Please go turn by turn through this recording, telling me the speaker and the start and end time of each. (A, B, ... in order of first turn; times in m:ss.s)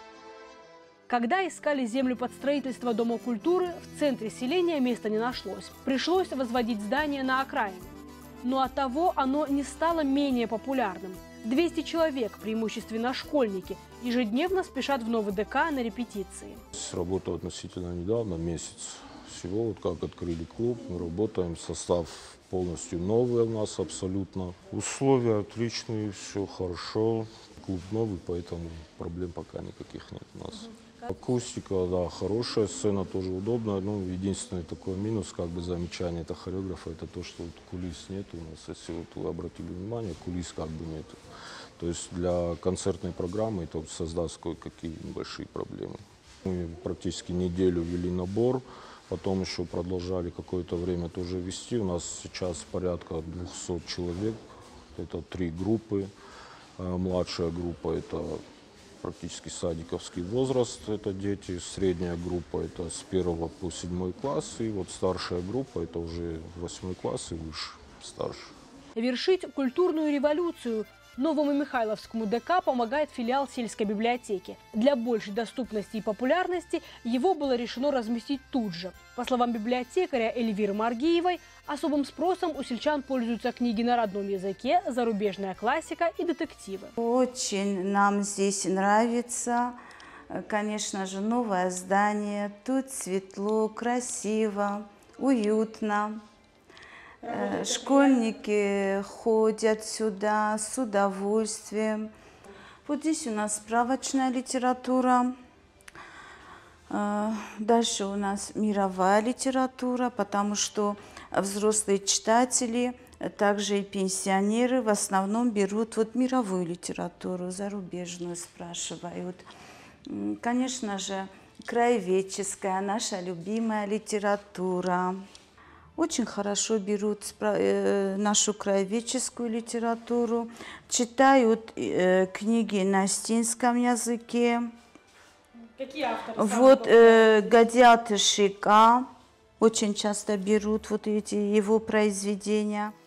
0:01.1-0:16.6 A
0:16.7-0:41.2 B
0:41.8-0:54.4 B
0:55.0-0:56.1 B
0:56.8-0:58.4 B
0:59.0-1:08.5 B
1:09.0-1:26.9 A
1:27.0-1:29.8 C
1:30.3-1:36.2 C
1:37.2-1:42.1 C
1:42.9-1:45.3 C
1:46.9-1:59.4 C
2:00.1-2:05.2 C
2:06.0-2:14.7 C
2:15.8-2:17.4 A
2:16.4-2:19.1 C
2:19.6-2:22.9 C